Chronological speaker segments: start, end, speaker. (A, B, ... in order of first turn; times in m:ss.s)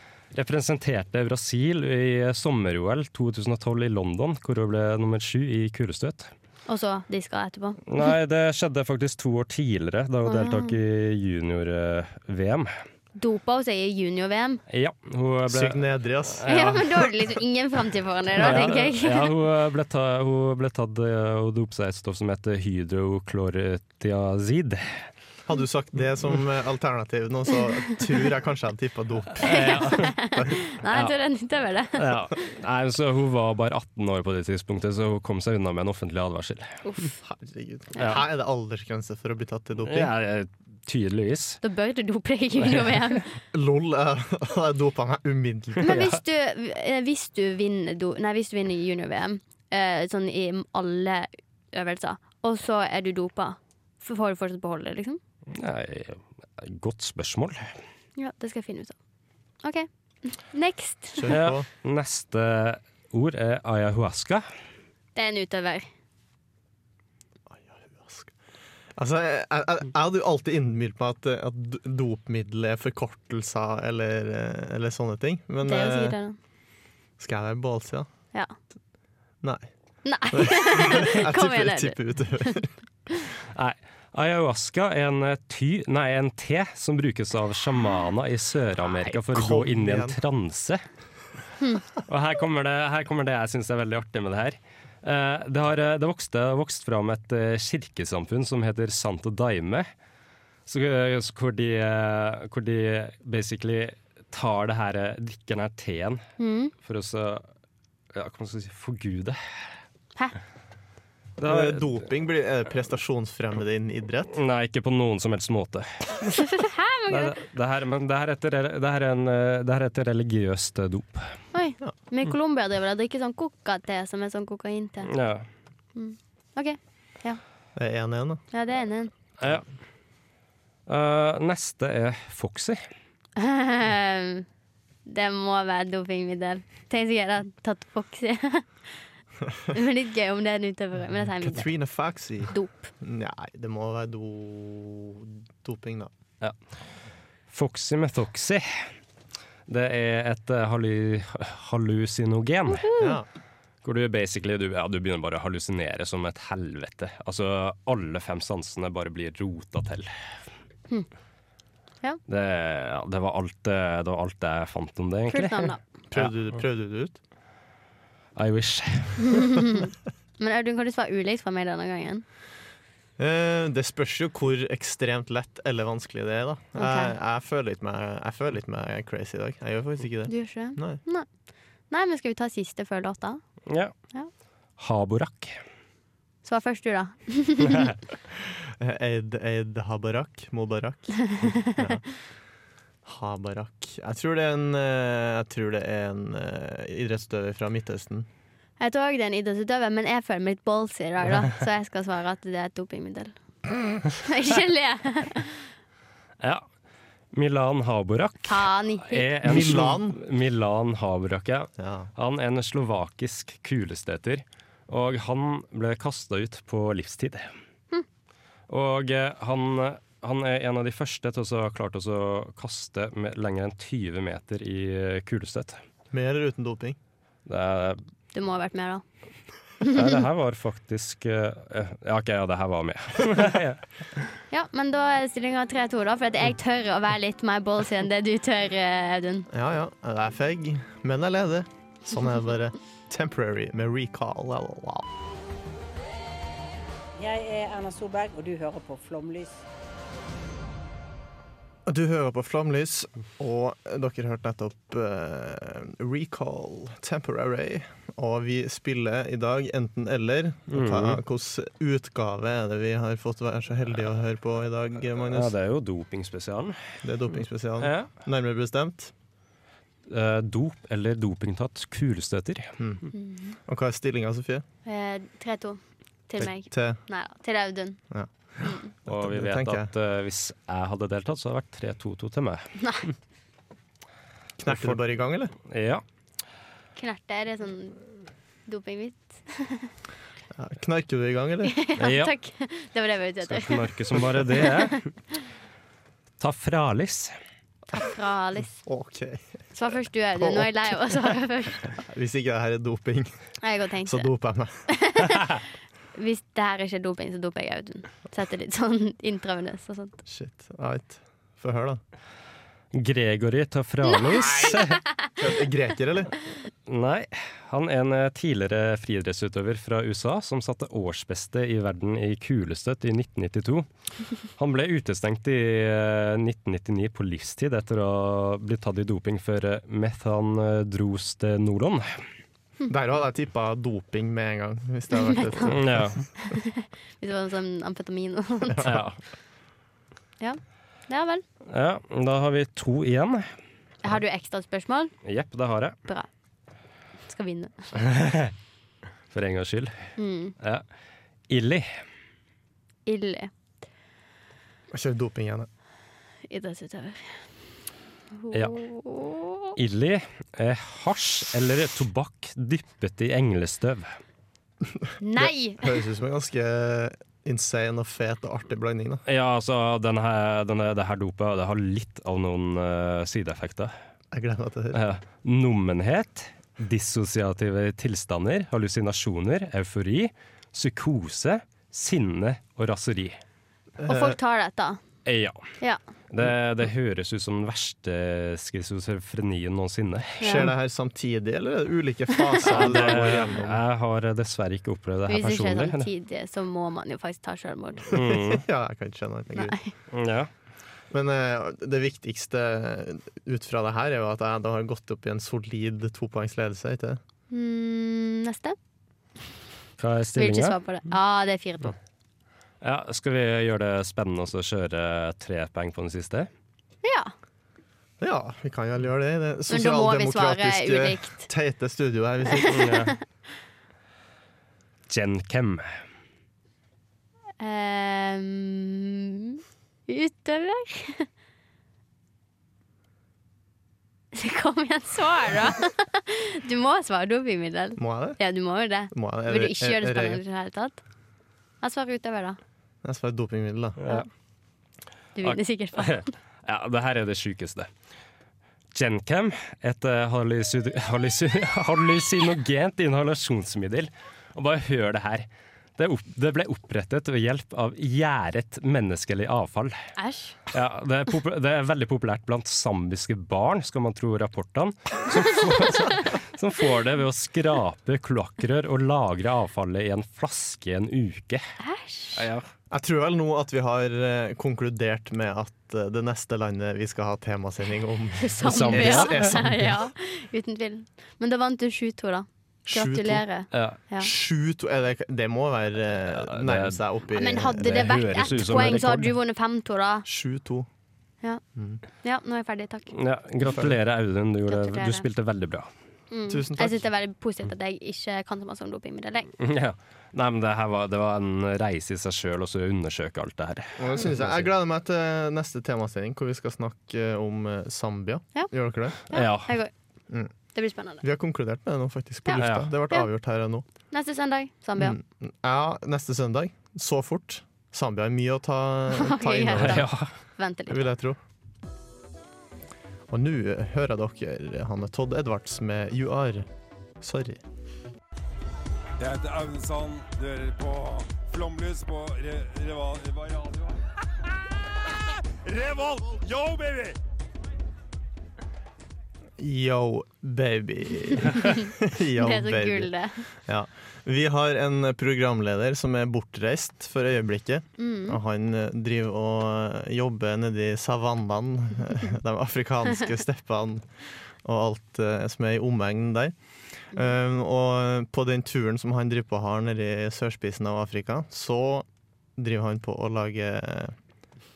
0:00.3-0:06.3 A
0:06.7-0:07.8 B
0:07.9-0:12.7 A
0:10.2-0:10.8 B
0:13.2-0:14.6 B
0:14.7-0:16.8 A
0:15.5-0:16.8 C
0:16.5-0:19.3 B
0:18.4-0:25.1 A
0:25.5-0:30.6 C
0:29.4-0:30.1 A
0:29.4-0:32.0 B
0:32.0-0:36.8 A
0:36.8-0:37.1 B
0:37.2-0:40.1 C
0:39.8-0:41.6 A
0:41.6-0:43.3 B
0:42.7-0:43.0 A
0:43.5-0:46.0 C
0:45.8-0:55.2 B
0:45.8-0:46.1 A
0:55.5-0:57.7 A
0:58.2-0:59.0 B
0:59.6-1:01.3 B
1:01.2-1:01.6 C
1:01.3-1:04.4 A
1:05.2-1:05.9 B
1:07.5-1:08.3 C
1:09.0-1:16.2 C
1:15.6-1:16.4 B
1:17.2-1:18.1 C
1:19.4-1:19.7 C
1:20.0-1:22.6 B
1:20.3-1:22.7 C
1:23.5-1:30.8 A
1:29.1-1:30.2 C
1:32.0-1:39.9 A
1:40.7-1:46.2 A
1:46.4-1:46.7 B
1:46.8-1:47.4 A
1:48.1-1:49.4 A
1:51.4-1:52.0 A
1:51.4-1:54.3 C
1:54.3-1:56.4 A
1:56.3-1:57.3 B
1:57.1-2:01.3 A
2:01.5-2:05.1 B
2:05.1-2:05.5 A
2:05.9-2:07.4 B
2:07.8-2:08.4 C
2:08.5-2:09.1 B
2:10.9-2:12.8 A
2:13.4-2:14.4 B
2:15.0-2:19.0 B
2:19.7-2:21.7 B
2:21.4-2:26.1 C
2:22.5-2:22.9 B
2:27.5-2:28.7 A
2:29.7-2:32.8 A
2:32.7-2:33.2 B
2:33.0-2:33.2 C
2:33.8-2:40.1 A
2:42.3-2:46.3 A
2:45.3-2:45.8 B
2:46.1-2:47.2 C
2:48.4-2:49.5 A
2:49.2-2:52.2 B
2:53.2-3:01.0 C
2:56.8-2:57.1 B
3:00.3-3:01.3 B
3:01.9-3:03.4 B
3:04.8-3:05.6 A
3:06.4-3:07.9 B
3:08.3-3:12.0 C
3:11.3-3:11.9 B
3:13.0-3:18.3 C
3:18.8-3:23.3 B
3:24.1-3:25.6 B
3:26.4-3:26.6 A
3:27.3-3:37.5 A
3:28.4-3:29.6 B
3:29.4-3:30.2 C
3:31.8-3:32.1 C
3:38.7-3:45.8 A
3:46.1-3:47.0 C
3:47.4-3:48.0 A
3:48.3-3:49.0 B
3:49.8-3:50.2 B
3:49.9-3:53.8 A
3:54.5-3:59.5 B
3:59.5-4:05.1 C
4:07.2-4:09.6 D
4:11.8-4:25.5 C
4:20.7-4:21.2 A
4:25.3-4:26.8 A
4:27.0-4:29.1 C
4:27.8-4:28.1 A
4:30.1-4:32.7 A
4:32.8-4:33.0 C
4:33.1-4:33.6 B
4:33.6-4:34.6 C
4:34.8-4:38.0 B
4:36.4-4:37.0 C
4:38.1-4:39.9 C
4:38.6-4:38.9 B
4:39.1-4:42.7 A
4:42.8-4:43.1 B
4:44.6-4:45.5 C
4:44.6-4:45.0 A
4:45.7-4:46.0 A
4:47.0-4:48.0 B
4:48.7-4:49.9 B
4:50.5-4:51.7 C
4:51.7-4:55.0 B
4:52.0-4:52.3 A
4:53.4-4:55.1 A
4:56.4-4:57.3 A
4:57.9-4:58.8 B
4:58.8-4:59.5 C
4:59.7-5:01.9 B
5:00.4-5:00.7 C
5:01.9-5:03.3 C
5:03.6-5:04.3 B
5:04.0-5:04.8 C
5:04.9-5:05.6 B
5:06.2-5:10.2 B
5:10.2-5:12.0 C
5:12.9-5:15.0 A
5:14.1-5:14.8 B
5:15.4-5:16.3 C
5:16.9-5:23.9 A
5:24.6-5:32.2 A
5:32.9-5:36.2 C
5:35.1-5:35.8 B
5:35.6-5:36.2 A
5:36.4-5:38.9 B
5:38.6-5:39.0 C
5:38.8-5:39.2 A
5:40.4-5:41.4 B
5:41.7-5:43.5 A
5:44.0-5:45.1 B
5:45.2-5:46.0 A
5:47.3-5:47.7 B
5:48.0-5:48.5 A
5:49.3-5:50.8 A
5:50.2-5:50.6 B
5:51.5-5:51.9 A
5:53.0-5:53.5 B
5:54.9-5:55.7 C
5:56.5-5:57.3 B
5:58.3-5:59.7 B
5:59.8-6:04.1 A
6:05.0-6:09.2 C
6:05.2-6:06.0 B
6:09.3-6:13.9 A
6:14.3-6:15.0 C
6:14.9-6:23.4 A
6:24.0-6:24.4 C
6:24.1-6:25.0 B
6:25.2-6:25.6 A
6:26.3-6:30.6 A
6:30.4-6:30.7 B
6:30.4-6:33.8 C
6:32.5-6:33.0 B
6:32.7-6:36.1 A
6:35.3-6:38.0 B
6:38.1-6:38.6 A
6:38.1-6:39.8 C
6:39.5-6:39.9 B
6:40.1-6:40.5 A
6:41.1-6:47.2 C
6:47.5-6:48.8 B
6:50.0-6:50.8 A
6:50.4-6:52.0 B
6:52.8-6:56.5 A
6:57.0-6:57.3 B
6:58.2-7:02.7 C
6:59.7-7:01.5 B
7:02.5-7:03.2 B
7:02.7-7:03.1 A
7:05.1-7:05.9 A
7:07.6-7:11.3 B
7:14.3-7:21.0 B
7:18.0-7:18.4 C
7:19.1-7:20.4 C
7:21.8-7:22.6 B
7:23.0-7:24.0 C
7:24.0-7:24.2 A
7:25.4-7:26.3 B
7:25.4-7:27.9 A
7:28.9-7:40.0 A
7:40.2-7:40.6 B
7:40.7-7:51.6 A
7:51.8-7:52.4 B
7:52.4-7:52.6 A
7:52.9-8:00.0 C
7:58.4-8:04.3 B
7:58.6-7:59.5 A
8:02.9-8:03.4 C
8:03.7-8:04.0 A
8:04.2-8:09.2 C
8:06.3-8:07.0 A
8:07.3-8:10.2 B
8:07.8-8:09.3 A
8:10.2-8:10.9 C
8:11.8-8:12.0 C
8:12.2-8:13.1 B
8:13.1-8:15.9 A
8:13.7-8:13.9 C
8:14.7-8:15.2 B
8:16.3-8:19.5 B
8:16.5-8:17.0 C
8:19.6-8:24.7 A
8:24.0-8:29.2 C
8:29.2-8:29.9 B
8:29.3-8:29.7 A
8:30.7-8:31.2 B
8:31.2-8:33.8 C
8:32.5-8:33.3 B
8:32.6-8:32.9 A
8:34.1-8:35.2 B
8:35.0-8:40.1 C
8:39.1-8:41.0 B
8:39.7-8:40.3 A
8:40.9-8:41.4 C
8:43.3-8:46.7 C
8:47.2-8:47.6 C
8:49.2-8:54.0 E
8:55.6-8:57.2 E
8:59.6-9:03.1 C
9:01.4-9:03.4 B
9:03.6-9:14.1 C
9:08.0-9:08.4 B
9:14.6-9:16.6 C
9:17.1-9:24.2 C